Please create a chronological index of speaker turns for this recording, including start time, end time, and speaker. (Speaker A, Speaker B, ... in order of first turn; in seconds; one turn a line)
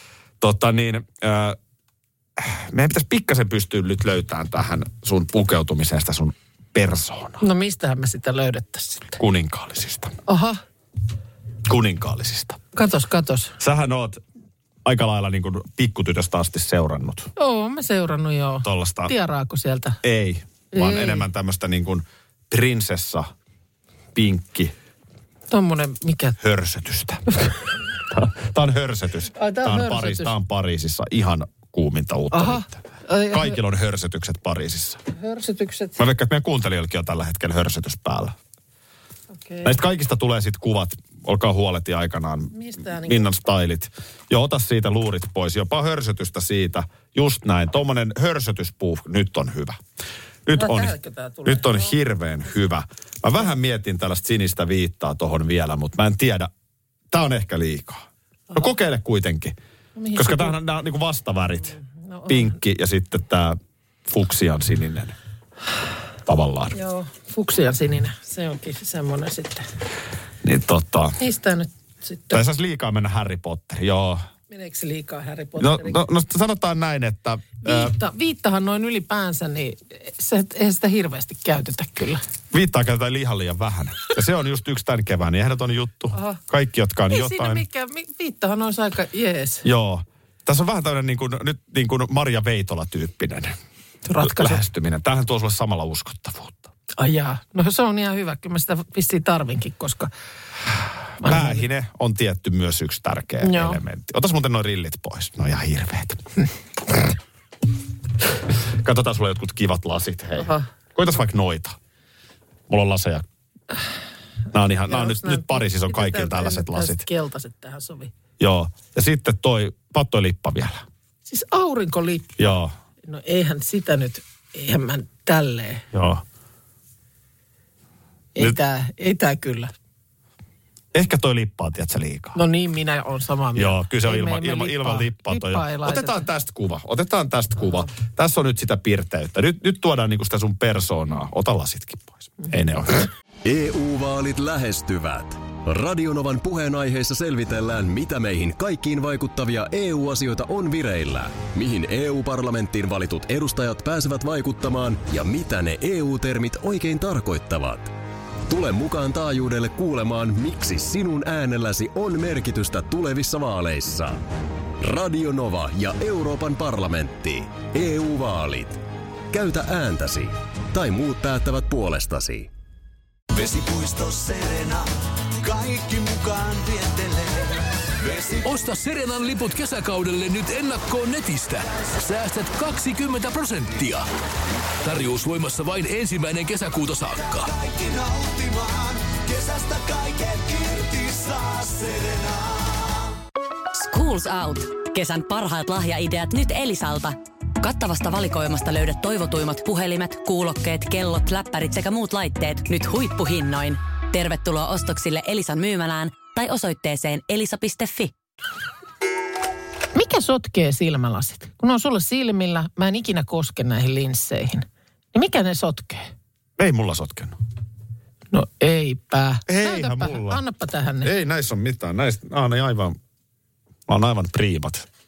Speaker A: 0.4-1.6
Speaker A: 2.4-7.4
Speaker B: 7.4-9.2
Speaker A: 9.2-10.1
Speaker B: 10.2-10.6
Speaker A: 11.6-12.6
Speaker B: 12.7-13.6
Speaker A: 13.6-14.2
Speaker A: 14.8-17.3
Speaker B: 17.4-20.0
Speaker A: 18.6-19.1
Speaker A: 20.0-23.3
Speaker B: 20.7-21.2
Speaker A: 24.1-24.7
Speaker B: 25.5-26.4
Speaker A: 26.4-27.2
Speaker A: 28.1-35.0
Speaker B: 29.3-30.3
Speaker B: 32.3-33.6
Speaker B: 35.1-36.0
Speaker A: 36.0-38.3
Speaker B: 39.4-39.8
Speaker A: 39.6-49.8
Speaker B: 42.5-43.3
Speaker A: 50.5-56.5
Speaker B: 50.5-51.9
Speaker A: 57.1-59.5
Speaker B: 60.0-60.6
Speaker A: 60.1-65.1
Speaker B: 62.1-62.5
Speaker A: 66.2-66.7
Speaker B: 66.7-69.7
Speaker A: 70.4-71.2
Speaker B: 71.2-72.4
Speaker A: 72.3-74.2
Speaker B: 74.5-76.0
Speaker A: 75.6-77.9
Speaker B: 77.6-82.2
Speaker A: 82.5-87.6
Speaker B: 86.1-86.4
Speaker B: 87.1-89.7
Speaker A: 89.6-93.5
Speaker B: 94.0-94.6
Speaker A: 94.2-96.7
Speaker B: 97.0-100.1
Speaker B: 101.2-101.6
Speaker A: 101.2-106.2
Speaker B: 103.4-103.8
Speaker A: 108.7-111.8
Speaker B: 110.4-110.7
Speaker A: 112.7-113.2
Speaker A: 114.5-117.0
Speaker B: 114.8-118.1
Speaker A: 118.4-120.8
Speaker B: 121.3-122.4
Speaker A: 122.4-122.7
Speaker B: 123.0-125.8
Speaker A: 125.9-126.2
Speaker B: 128.3-129.7
Speaker A: 130.9-132.4
Speaker B: 132.3-136.3
Speaker A: 133.5-143.1
Speaker C: 143.4-157.9
Speaker C: 158.5-164.2
Speaker C: 164.8-172.5
Speaker D: 173.3-178.5
Speaker E: 178.4-184.1
Speaker E: 184.8-187.5
Speaker D: 187.2-193.1
Speaker F: 193.7-208.1
Speaker B: 209.9-216.1
Speaker A: 216.6-217.3
Speaker B: 218.3-221.1
Speaker A: 219.5-220.4
Speaker A: 221.0-223.0
Speaker A: 223.9-224.8